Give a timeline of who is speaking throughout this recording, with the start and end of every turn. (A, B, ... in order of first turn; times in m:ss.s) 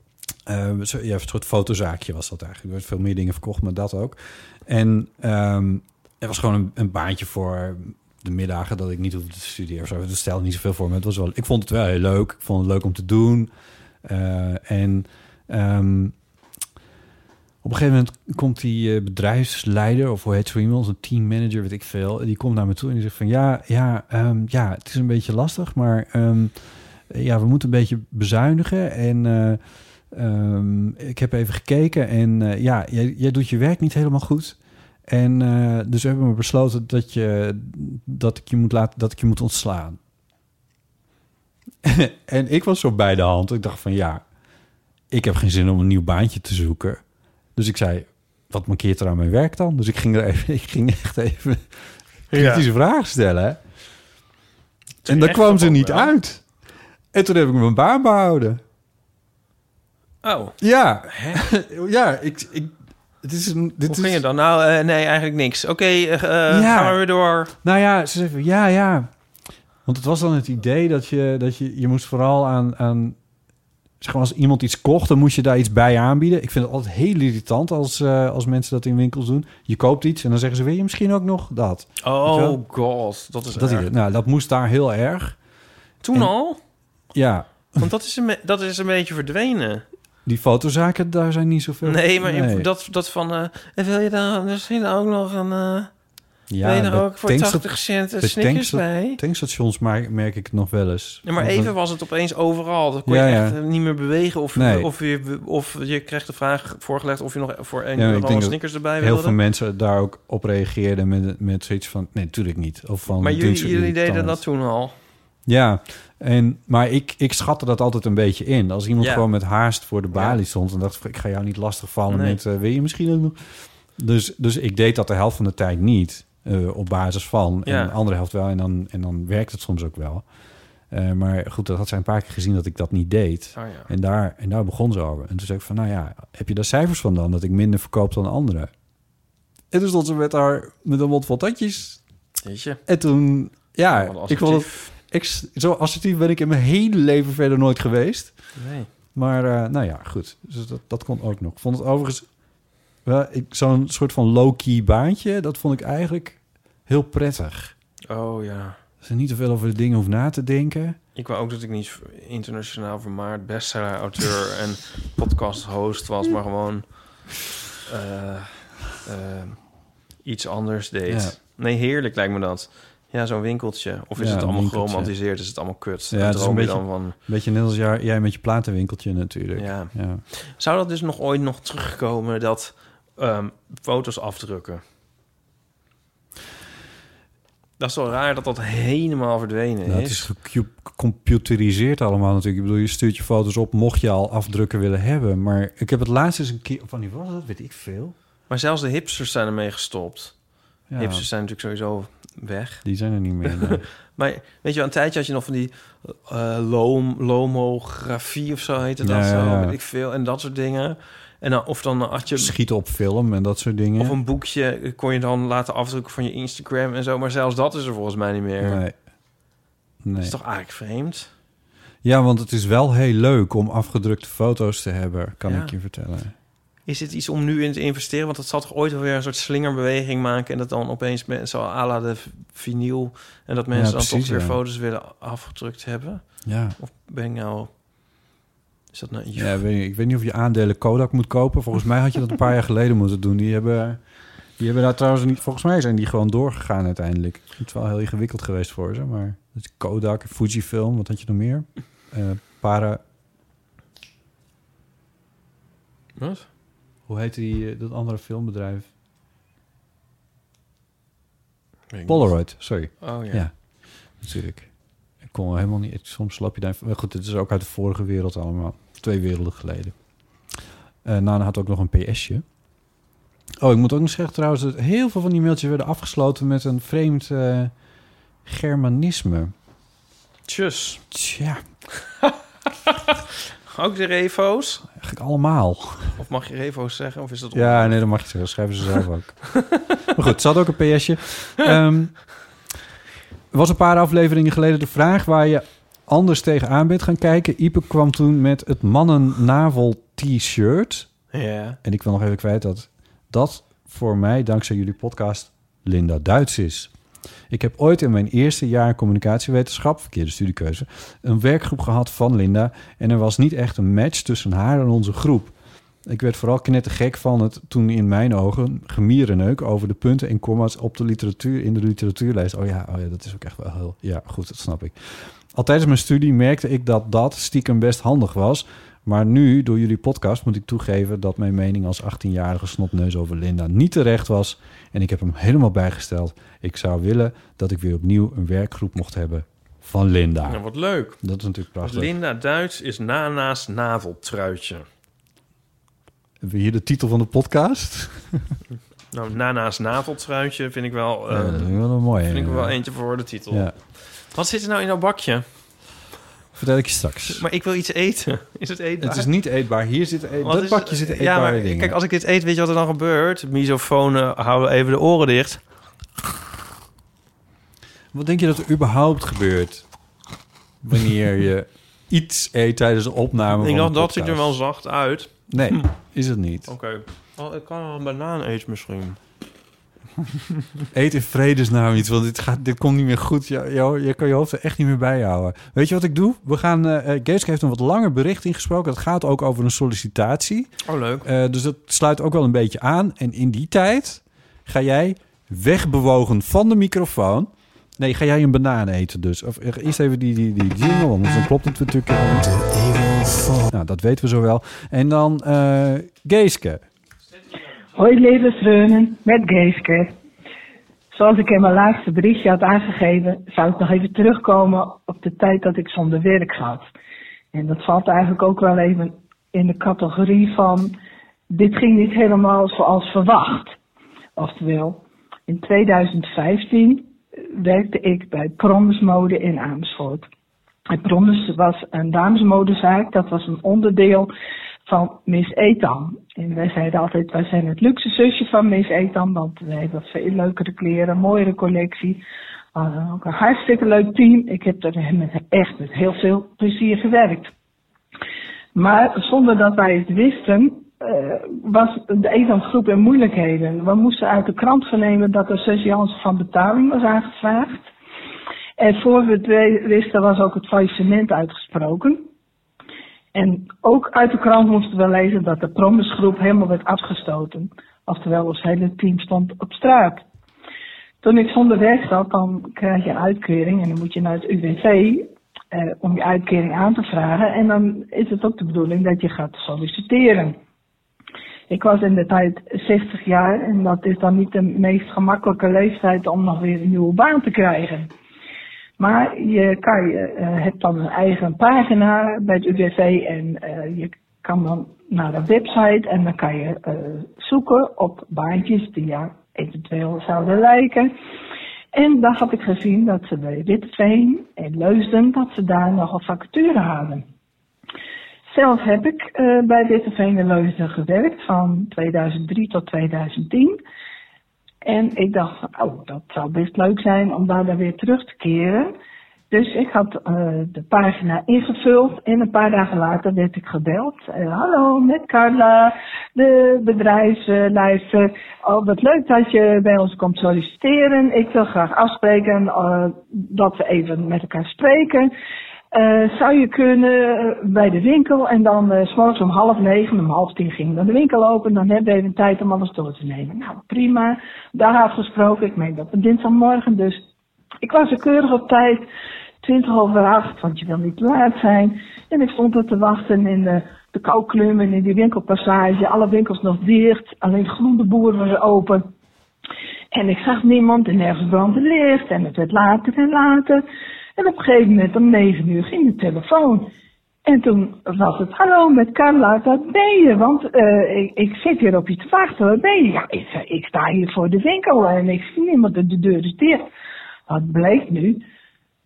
0:00.4-0:13.5 A
0:14.0-0:16.1 A
0:17.6-0:29.6 A
0:30.1-0:40.0 A
0:41.8-0:44.2 A
0:45.1-0:47.0 A
0:47.5-0:53.6 A
0:52.3-0:52.6 B
0:55.0-0:56.1 B
0:55.0-0:56.4 A
0:57.1-0:58.6 A
1:00.2-1:01.4 B
1:00.6-1:04.2 A
1:03.9-1:07.5 B
1:06.5-1:07.0 A
1:07.5-1:09.1 A
1:09.8-1:13.2 A
1:14.0-1:22.6 A
1:22.0-1:23.9 B
1:23.5-1:25.4 A
1:26.0-1:26.6 B
1:27.1-1:27.9 A
1:27.8-1:29.8 B
1:30.2-1:32.7 A
1:31.8-1:35.9 B
1:36.5-1:41.7 A
1:36.6-1:39.2 B
1:41.2-1:49.4 B
1:43.0-1:43.6 A
1:44.5-1:44.9 A
1:48.0-1:54.4 A
1:53.2-1:54.9 B
1:55.4-2:10.2 A
1:59.0-1:59.2 B
2:00.1-2:00.4 B
2:02.1-2:02.4 B
2:07.6-2:07.9 B
2:10.9-2:18.7 A
2:13.6-2:13.9 B
2:19.7-2:22.0 A
2:22.4-2:22.8 B
2:22.9-2:28.4 A
2:23.9-2:24.9 B
2:28.6-2:28.9 B
2:29.1-2:32.2 A
2:33.0-2:37.7 A
2:38.1-2:38.8 B
2:39.0-2:41.0 A
2:41.1-2:47.2 B
2:47.8-2:49.6 B
2:50.2-2:57.2 B
2:51.1-2:51.4 A
2:54.2-2:55.1 A
2:56.1-3:00.2 A
2:59.5-3:04.8 B
3:07.8-3:10.3 B
3:09.8-3:18.1 A
3:18.5-3:20.3 B
3:20.9-3:21.3 A
3:21.0-3:22.8 B
3:22.8-3:23.8 A
3:23.6-3:32.5 B
3:29.0-3:29.8 A
3:32.3-3:34.2 A
3:34.0-3:38.8 B
3:38.6-3:39.0 A
3:40.0-3:40.4 A
3:40.2-3:41.3 B
3:42.0-3:46.3 A
3:45.4-3:45.7 B
3:46.8-3:57.7 B
3:53.7-3:54.6 A
3:56.4-3:56.8 A
3:58.9-3:59.6 B
3:59.3-4:04.0 A
4:04.6-4:13.0 A
4:16.2-4:16.4 B
4:17.1-4:18.9 A
4:21.9-4:23.5 B
4:22.1-4:23.6 A
4:24.2-4:24.7 A
4:25.2-4:29.9 A
4:31.0-4:32.4 A
4:33.6-4:37.7 A
4:38.4-4:39.5 A
4:40.4-4:41.0 B
4:41.1-4:41.6 A
4:43.7-4:44.8 B
4:45.0-4:46.2 A
4:46.2-4:48.0 B
4:47.5-4:52.2 A
4:53.5-5:01.1 A
5:01.3-5:01.8 B
5:01.8-5:06.9 A
5:07.5-5:15.5 A
5:16.0-5:40.6 A
5:40.4-5:41.2 B
5:41.2-5:42.1 A
5:41.8-5:44.8 B
5:46.4-5:48.5 A
5:49.1-5:55.4 B
5:51.3-5:52.8 A
5:56.6-5:57.4 A
5:57.3-5:59.3 B
5:59.0-6:02.0 A
6:00.4-6:05.6 B
6:08.1-6:09.9 A
6:10.8-6:14.5 A
6:13.6-6:15.8 B
6:15.5-6:16.7 A
6:16.7-6:19.2 B
6:20.9-6:30.7 A
6:30.8-6:31.2 B
6:31.2-6:46.8 A
6:48.0-6:50.1 C
6:51.1-6:56.9 C
6:57.5-7:00.9 C
7:01.5-7:03.7 C
7:04.4-7:10.2 C
7:10.9-7:14.3 C
7:14.9-7:22.2 C
7:22.7-7:27.5 C
7:28.7-7:37.9 C
7:38.8-7:42.2 C
7:43.3-7:50.2 C
7:51.2-8:00.6 C
8:01.7-8:08.1 C
8:09.0-8:21.1 C
8:21.9-8:27.2 C
8:28.5-8:33.8 C
8:34.8-8:38.9 C
8:39.5-8:55.3 C
8:55.9-9:07.2 C
9:07.8-9:09.0 C
9:09.6-9:19.1 C
9:20.1-9:23.8 C
9:24.4-9:26.9 C
9:27.4-9:36.9 C
9:37.5-9:38.4 C